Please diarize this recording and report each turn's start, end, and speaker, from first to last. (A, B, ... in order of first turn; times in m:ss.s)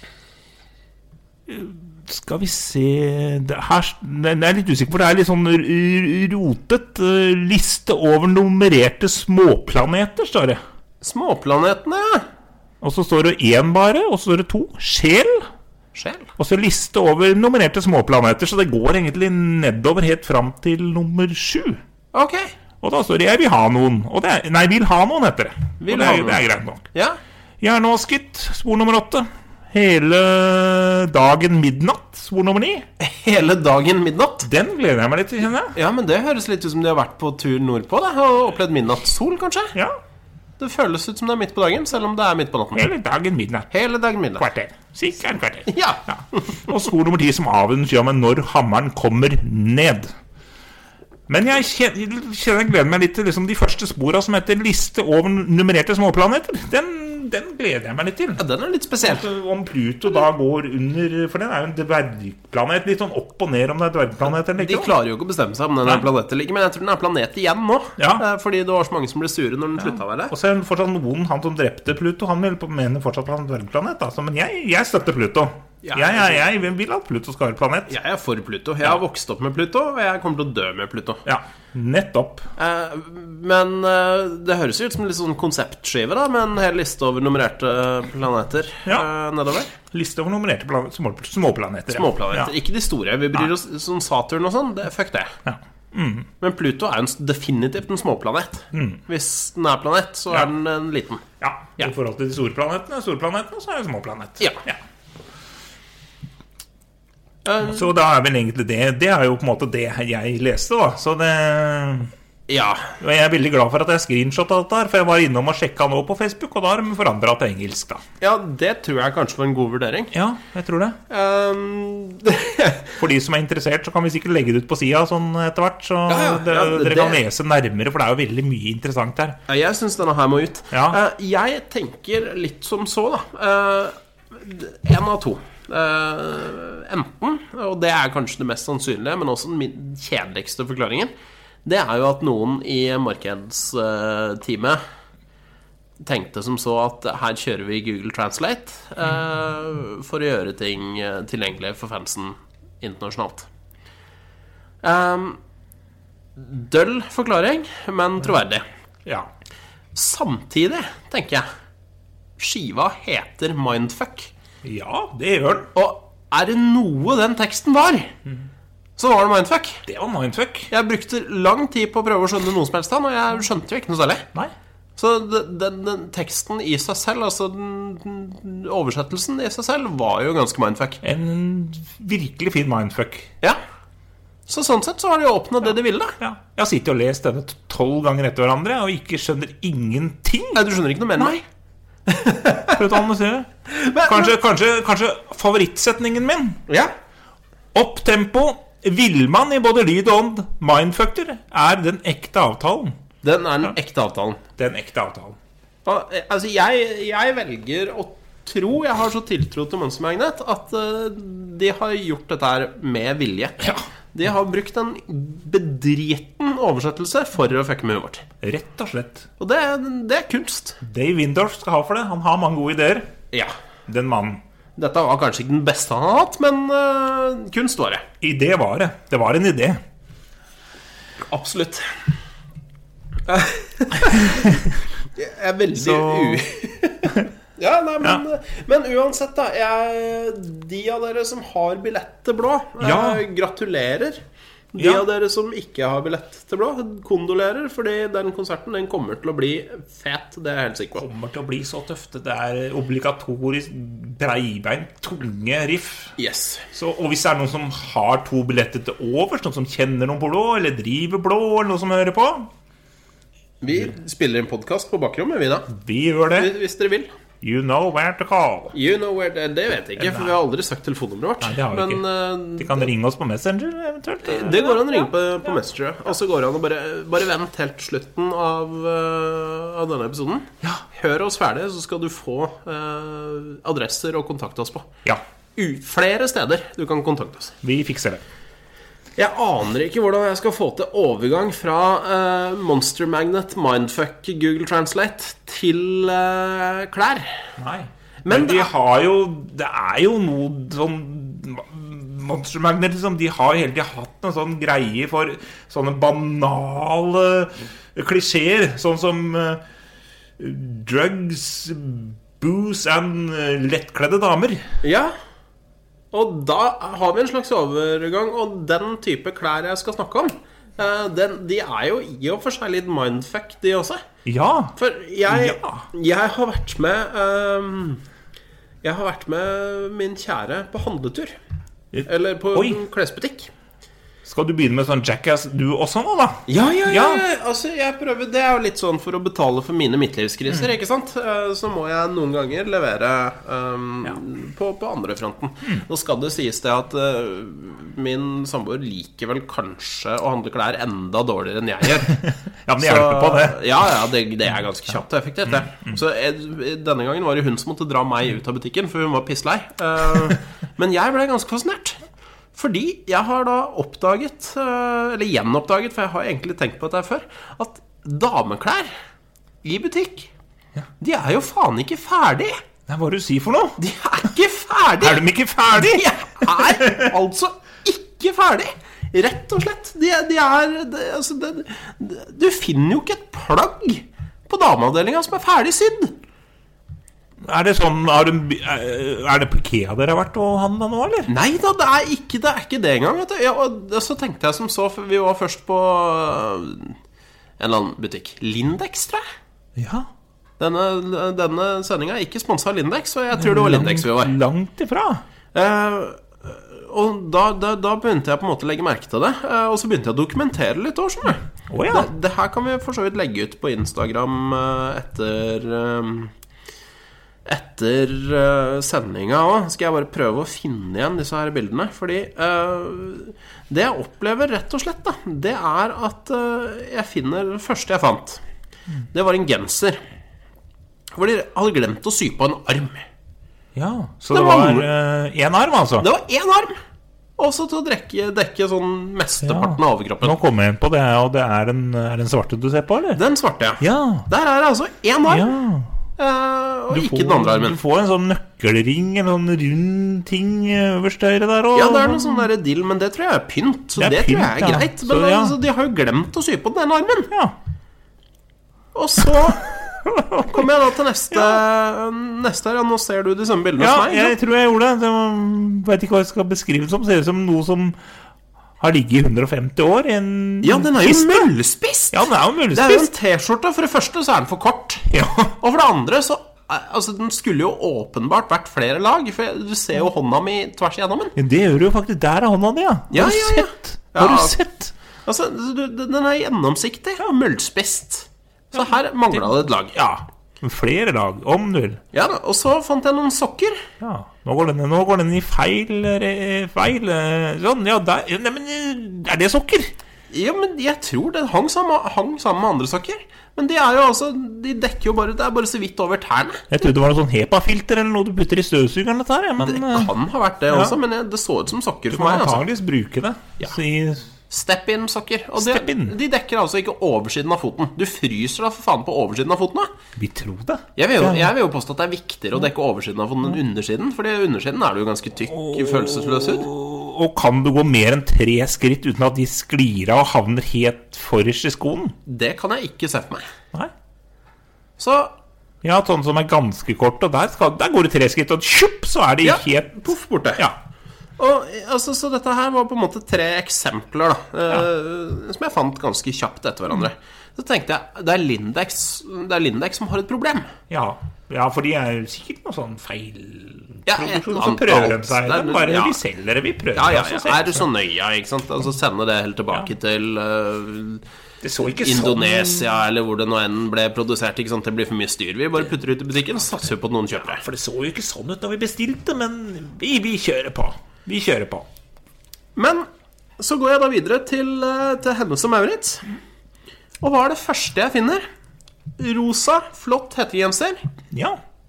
0:01.5-0:10.6 A
0:11.0-0:12.3 B
0:12.8-0:15.5 A
0:15.9-0:16.3 B
0:16.4-0:21.8 A
0:22.1-0:22.5 B
0:22.8-0:26.9 A
0:25.8-0:27.2 B
0:27.6-0:32.9 A
0:33.0-0:34.5 B
0:34.4-0:35.8 A
0:35.8-0:39.8 B
0:40.6-0:42.9 B
0:42.7-0:43.7 A
0:43.7-0:44.4 B
0:44.4-0:50.1 A
0:45.7-0:46.7 B
0:51.3-0:58.4 A
0:58.4-0:59.3 B
0:59.0-1:04.9 A
1:04.5-1:10.3 B
1:08.0-1:08.2 A
1:09.8-1:18.0 A
1:15.8-1:16.4 B
1:17.9-1:21.2 B
1:21.3-1:22.5 A
1:22.6-1:29.8 B
1:29.9-1:32.5 A
1:31.9-1:35.4 B
1:35.4-1:36.3 A
1:36.4-1:41.2 B
1:38.7-1:39.0 A
1:41.4-1:44.8 A
1:47.4-1:47.9 B
1:47.6-1:52.1 A
1:52.5-1:53.0 B
1:53.0-1:58.0 A
1:58.2-2:00.1 B
2:00.1-2:01.0 A
2:01.1-2:03.0 B
2:03.0-2:09.4 A
2:06.1-2:07.2 B
2:09.5-2:21.1 B
2:10.7-2:11.0 A
2:21.6-2:24.8 B
2:26.0-2:33.5 B
2:34.8-2:35.4 B
2:36.4-2:38.6 B
2:39.0-2:39.3 A
2:40.0-2:41.5 B
2:42.4-2:44.3 B
2:44.6-2:45.7 A
2:45.8-2:48.2 B
2:49.0-2:49.8 B
2:49.9-2:50.7 A
2:50.7-2:54.3 B
2:55.0-3:01.0 B
3:01.0-3:03.3 A
3:04.5-3:06.2 B
3:06.2-3:11.3 A
3:10.6-3:11.4 B
3:12.1-3:12.9 B
3:12.7-3:16.6 A
3:13.7-3:14.3 B
3:16.7-3:16.9 B
3:17.7-3:23.0 A
3:23.2-3:24.4 B
3:24.6-3:25.4 A
3:25.9-3:38.3 B
3:38.4-3:39.3 A
3:39.4-3:40.8 B
3:40.8-3:43.1 A
3:43.9-3:44.4 A
3:44.8-3:48.0 B
3:48.2-3:49.8 A
3:51.2-3:51.9 B
3:53.3-4:04.2 B
3:54.3-3:54.6 A
3:55.8-3:56.4 A
4:02.8-4:03.2 A
4:04.7-4:11.1 B
4:04.8-4:05.0 A
4:11.0-4:16.1 A
4:16.2-4:16.7 B
4:16.7-4:22.5 A
4:23.6-4:25.7 B
4:25.7-4:26.5 A
4:26.3-4:27.1 B
4:27.4-4:28.8 A
4:28.7-4:32.9 B
4:30.0-4:30.4 A
4:31.4-4:35.1 A
4:34.2-4:44.9 B
4:45.6-4:47.6 B
4:47.6-4:48.2 A
4:49.2-4:57.4 B
4:57.6-5:09.6 A
4:58.2-4:58.7 B
5:10.4-5:14.6 A
5:14.8-5:15.1 B
5:16.1-5:24.0 B
5:24.2-5:25.8 A
5:24.8-5:28.0 B
5:28.8-5:31.4 B
5:31.9-5:32.8 A
5:32.1-5:33.5 B
5:34.2-5:37.2 A
5:36.5-6:02.0 B
5:52.1-5:53.6 A
5:55.5-5:56.0 A
6:02.5-6:08.9 B
6:09.6-6:10.3 B
6:11.0-6:12.6 B
6:12.9-6:13.8 A
6:13.8-6:26.2 B
6:15.0-6:17.1 A
6:27.4-6:31.3 A
6:31.3-6:37.0 B
6:37.6-6:39.2 B
6:39.8-6:40.1 A
6:40.6-6:44.4 B
6:43.3-6:45.2 A
6:45.5-6:56.3 B
6:51.7-6:52.1 A
6:57.5-7:08.4 B
7:09.1-7:10.0 B
7:11.2-7:13.1 B
7:13.8-7:16.1 A
7:14.3-7:14.9 B
7:16.0-7:16.8 B
7:17.4-7:20.4 B
7:19.4-7:23.2 A
7:23.1-7:25.6 B
7:23.8-7:24.3 A
7:25.3-7:25.9 A
7:26.2-7:27.8 B
7:26.9-7:32.5 A
7:31.8-7:37.3 B
7:34.0-7:35.6 A
7:37.3-7:37.6 A
7:38.9-7:39.8 B
7:39.7-7:40.7 A
7:40.4-7:44.4 B
7:41.3-7:41.6 A
7:43.8-7:48.0 A
7:48.8-7:51.5 A
7:50.6-8:01.4 B
7:52.1-7:53.1 A
7:55.1-7:55.6 A
8:01.4-8:04.9 A
8:03.1-8:04.6 B
8:05.3-8:10.0 B
8:08.8-8:12.0 A
8:12.1-8:13.8 B
8:14.0-8:19.9 A
8:20.3-8:26.9 B
8:26.7-8:30.1 A
8:29.6-8:32.6 B
8:30.7-8:31.0 A
8:32.1-8:34.3 A
8:34.5-8:39.9 B
8:35.6-8:36.2 A
8:40.2-8:41.5 A
8:41.0-8:46.7 B
8:45.5-8:52.2 A
8:52.3-8:53.5 B
8:55.0-8:55.3 B
8:55.8-9:00.0 A
8:59.4-9:00.6 B
9:01.4-9:10.7 B
9:10.9-9:17.9 A
9:14.1-9:16.2 B
9:16.9-9:21.2 B
9:21.6-9:22.9 A
9:21.8-9:27.6 B
9:27.4-9:31.9 A
9:32.8-9:33.1 B
9:33.6-9:36.3 B
9:37.2-9:38.4 B
9:39.2-9:41.0 B
9:41.3-9:41.6 A